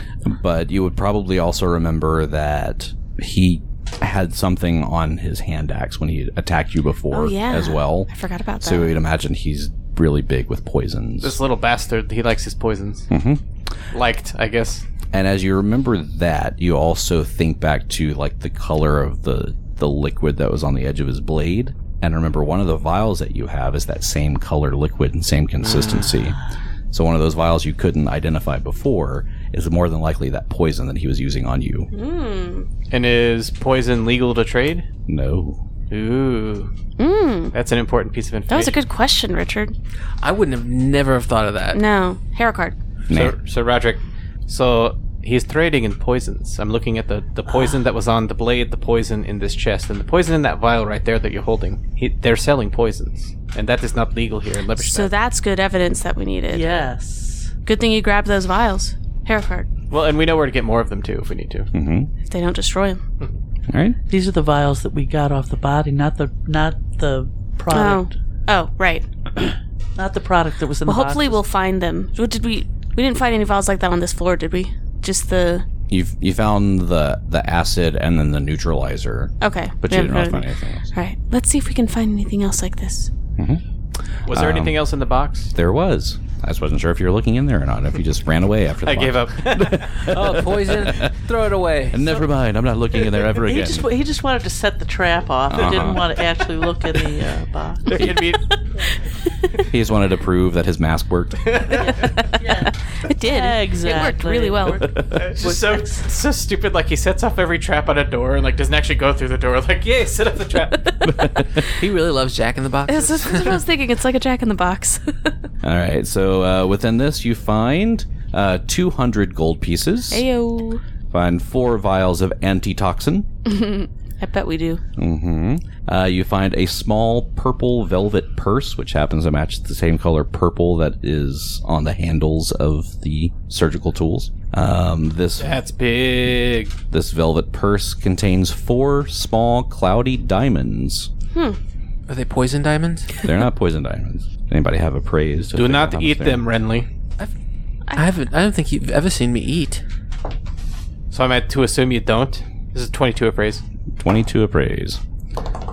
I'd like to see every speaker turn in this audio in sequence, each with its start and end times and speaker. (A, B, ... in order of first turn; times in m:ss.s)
0:00.2-0:08.1 A
0:07.1-0:08.9 B
0:08.6-0:11.4 A
0:11.2-0:13.1 C
0:13.1-0:13.4 A
0:13.9-0:14.8 C
0:15.1-0:26.4 A
0:26.9-0:31.9 A
0:31.9-0:32.7 B
0:32.9-0:34.8 C
0:35.1-0:35.6 A
0:35.9-0:36.7 C
0:37.0-0:37.5 B
0:37.5-0:38.7 C
0:38.5-0:39.7 B
0:40.2-0:41.8 D
0:41.7-0:42.8 B
0:43.1-0:43.3 A
0:43.1-0:55.1 C
0:47.5-0:47.8 E
0:54.8-0:56.7 B
0:56.5-0:57.5 E
0:57.6-0:59.7 B
0:59.9-1:01.7 C
1:01.7-1:02.1 A
1:02.3-1:03.0 B
1:03.7-1:04.0 A
1:04.1-1:08.1 E
1:07.7-1:09.0 B
1:10.0-1:11.4 E
1:10.8-1:15.6 B
1:15.9-1:20.9 A
1:19.4-1:23.1 B
1:23.4-1:23.6 A
1:24.3-1:25.5 C
1:24.3-1:24.8 A
1:25.5-1:31.1 A
1:28.8-1:30.1 C
1:30.0-1:32.1 D
1:31.9-1:33.9 A
1:33.3-1:38.6 E
1:35.5-1:36.1 A
1:37.8-1:38.4 C
1:39.7-1:41.6 A
1:41.4-1:42.3 C
1:41.7-1:46.1 E
1:42.4-1:44.9 B
1:45.0-1:50.9 C
1:50.9-1:51.7 B
1:51.0-1:51.7 A
1:51.6-1:53.6 D
1:52.9-1:55.3 B
1:55.6-2:00.2 A
2:00.1-2:00.8 B
2:01.1-2:03.3 A
2:03.4-2:04.8 B
2:05.0-2:15.6 A
2:15.4-2:16.7 C
2:16.9-2:21.1 A
2:22.1-2:23.2 D
2:23.2-2:26.4 A
2:25.5-2:26.9 C
2:27.9-2:29.8 D
2:31.1-2:33.6 C
2:34.0-2:35.0 A